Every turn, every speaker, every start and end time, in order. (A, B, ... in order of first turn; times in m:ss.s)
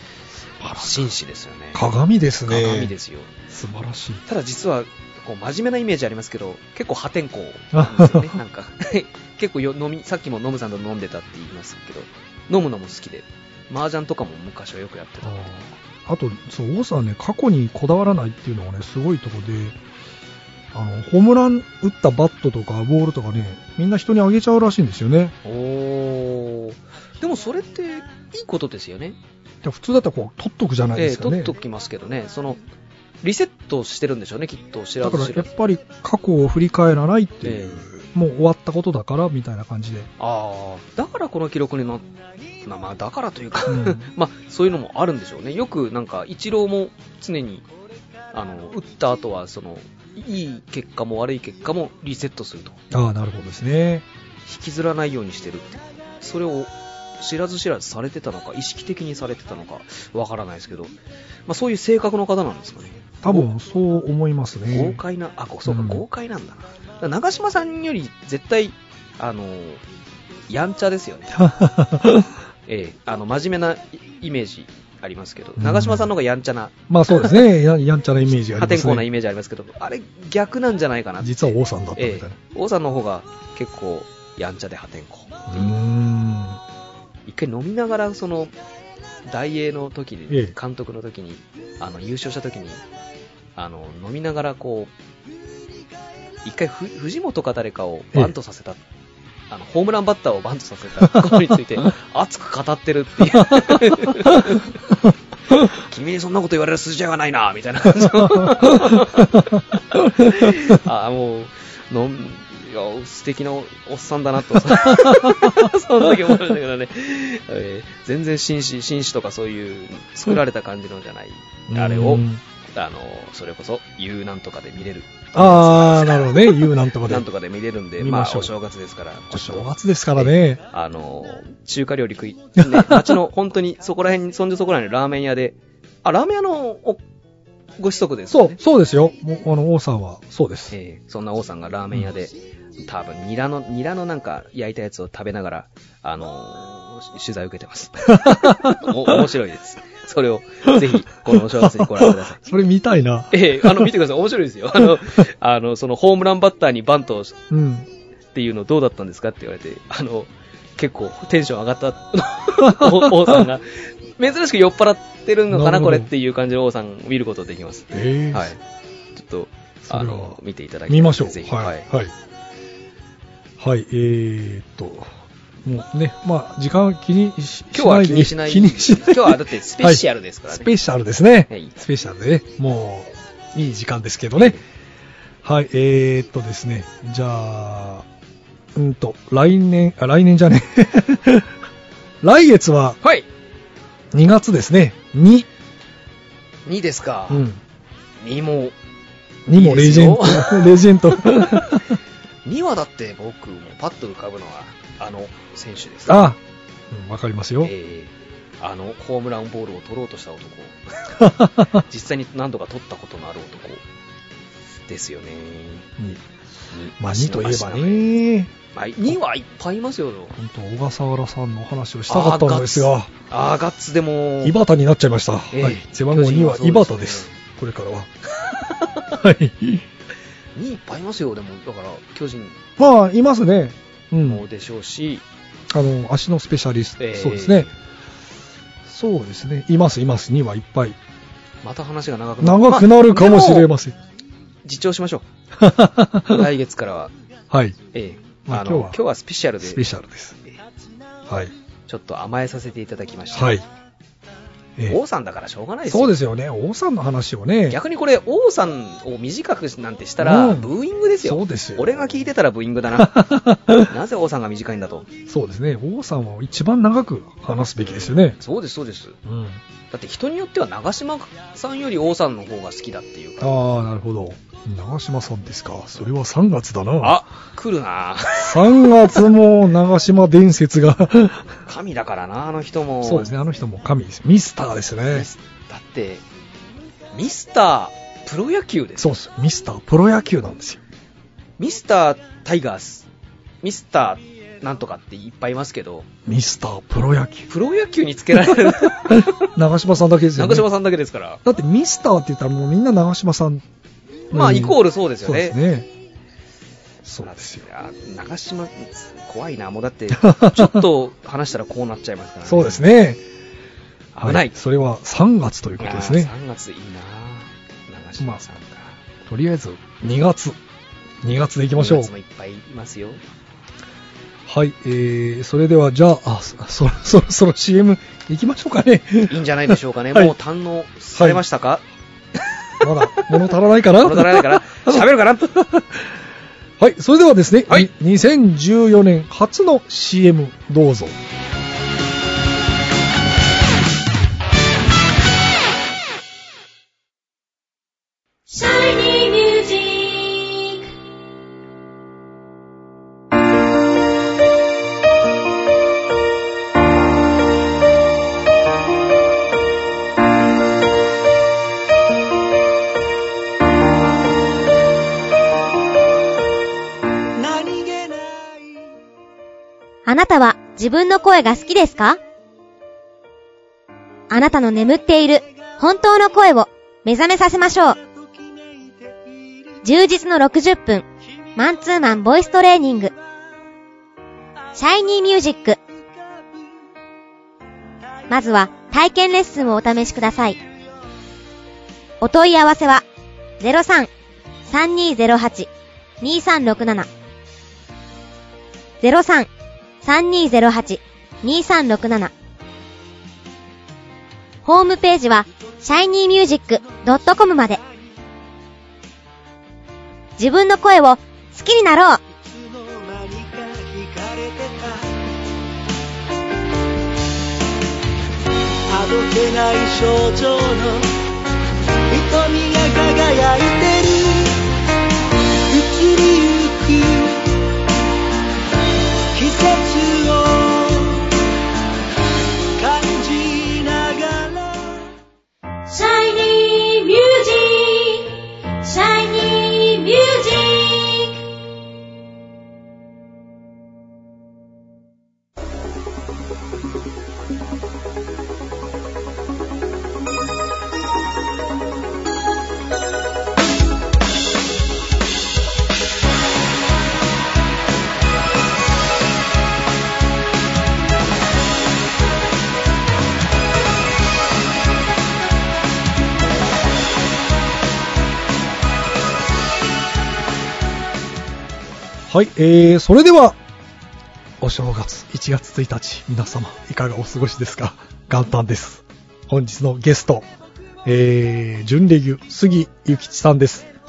0:00.6-0:01.1 A
0:00.8-0:01.8 B
0:01.7-0:02.9 A
0:02.5-0:03.3 B
0:03.5-0:04.2 A
0:04.3-0:15.5 B
0:07.7-0:08.3 A
0:15.2-0:19.8 A
0:20.7-0:25.4 A
0:25.4-0:29.2 B
0:29.6-0:31.5 A
0:31.0-0:32.6 B
0:33.2-0:35.5 B
0:35.0-0:40.1 A
0:37.4-0:37.9 B
0:40.2-0:42.0 B
0:42.6-0:47.6 B
0:43.7-0:44.0 A
0:48.3-0:52.8 B
0:52.9-0:54.0 A
0:54.4-1:00.9 B
1:01.5-1:03.5 B
1:03.2-1:05.0 A
1:04.7-1:09.8 B
1:05.6-1:06.0 A
1:10.5-1:11.4 B
1:11.4-1:12.3 A
1:12.7-1:17.4 B
1:15.6-1:16.1 A
1:16.9-1:19.0 A
1:18.4-1:21.4 B
1:21.2-1:22.4 A
1:22.0-1:25.7 B
1:25.5-1:26.6 A
1:27.2-1:28.5 B
1:29.3-1:32.8 B
1:30.3-1:30.5 A
1:33.6-1:34.9 B
1:36.4-1:38.8 B
1:39.5-1:44.7 B
1:41.1-1:41.4 A
1:43.3-1:44.5 A
1:45.7-2:02.2 B
1:48.2-1:48.9 A
1:54.8-1:55.7 A
2:01.7-2:02.4 A
2:02.7-2:17.0 B
2:05.3-2:07.2 A
2:08.0-2:08.5 A
2:09.3-2:10.6 A
2:12.6-2:13.2 A
2:17.8-2:18.6 B
2:18.3-2:20.7 A
2:20.7-2:22.3 B
2:22.8-2:32.4 B
2:28.1-2:29.2 A
2:30.7-2:33.9 A
2:33.3-2:37.4 B
2:37.5-2:37.9 A
2:38.3-2:48.6 B
2:42.6-2:43.4 A
2:45.5-2:46.1 A
2:47.9-2:48.5 A
2:49.2-2:51.8 B
2:49.9-2:50.4 A
2:50.9-2:52.1 A
2:53.6-2:55.1 A
2:55.6-3:04.6 A
2:57.7-3:00.7 B
3:04.4-3:04.6 B
3:05.4-3:08.0 A
3:08.7-3:11.5 A
3:12.2-3:13.0 A
3:14.1-3:15.5 A
3:16.6-3:17.4 B
3:17.3-3:17.6 A
3:18.2-3:18.7 B
3:19.5-3:21.9 A
3:19.5-3:21.8 B
3:22.4-3:26.3 B
3:26.1-3:26.4 A
3:26.9-3:27.7 A
3:27.6-3:33.8 B
3:31.2-3:31.8 A
3:34.9-3:35.9 B
3:36.7-3:38.1 B
3:37.0-3:38.5 A
3:38.7-3:40.3 B
3:40.3-3:43.1 A
3:42.1-3:44.6 B
3:44.4-3:48.1 A
3:45.5-3:47.3 B
3:48.6-3:48.9 B
3:49.1-3:49.8 A
3:50.6-3:52.6 B
3:52.8-3:54.4 A
3:54.2-3:55.2 B
3:55.7-3:57.7 A
3:57.0-3:57.7 B
3:58.8-4:01.0 A
4:01.6-4:03.7 B
4:02.4-4:04.0 A
4:04.6-4:05.2 B
4:05.6-4:06.5 A
4:06.3-4:07.1 B
4:07.5-4:07.8 A
4:07.9-4:09.8 B
4:08.5-4:09.0 A
4:09.6-4:10.4 A
4:11.3-4:11.5 A
4:11.9-4:13.6 B
4:13.3-4:13.6 A
4:14.9-4:16.1 B
4:15.9-4:17.8 A
4:17.7-4:23.2 B
4:20.2-4:22.0 A
4:22.9-4:23.9 A
4:23.7-4:25.1 B
4:25.3-4:28.4 A
4:27.8-4:29.2 B
4:29.2-4:29.6 A
4:29.9-4:33.6 B
4:33.4-4:37.2 A
4:37.0-4:38.9 B
4:38.4-4:41.5 A
4:41.6-4:43.3 B
4:43.0-4:45.3 A
4:45.1-4:46.2 B
4:47.1-4:49.1 B
4:49.0-4:50.8 A
4:51.6-4:53.0 B
4:53.6-4:56.1 B
4:56.2-4:57.5 A
4:57.5-4:59.5 B
4:59.1-5:00.7 A
5:00.3-5:01.4 B
5:01.4-5:03.6 A
5:04.3-5:05.6 B
5:04.3-5:05.9 A
5:07.0-5:07.6 A
5:07.2-5:12.9 B
5:10.1-5:10.8 A
5:12.4-5:13.2 A
5:14.1-5:14.5 B
5:14.2-5:16.3 A
5:15.8-5:19.0 B
5:19.2-5:20.6 A
5:21.2-5:22.1 A
5:21.7-5:23.2 B
5:24.5-5:30.3 A
5:29.3-5:31.8 B
5:31.2-5:31.4 A
5:32.8-5:35.0 A
5:32.8-5:35.6 B
5:36.8-5:41.2 A
5:48.5-5:50.8 C
6:07.4-6:08.7 D
6:10.0-6:12.2 E
6:14.3-6:18.0 E
6:18.3-6:19.2 D
6:19.8-6:23.1 E
6:24.8-6:25.8 E
6:28.3-6:30.6 E
6:32.2-6:33.0 E
6:33.6-6:34.1 E
6:34.7-6:35.7 E
6:36.2-6:37.1 E
6:39.0-6:39.5 E
6:40.0-6:42.3 E
6:44.6-6:47.8 E
6:50.4-6:52.2 E
6:52.3-6:55.1 D
6:58.9-7:01.1 D
7:02.1-7:04.6 D
7:05.7-7:07.5 D
7:09.3-7:11.3 D
7:12.8-7:15.0 D
7:15.9-7:21.4 C
7:52.3-7:53.6 A
7:54.6-8:00.5 A
8:01.0-8:03.9 A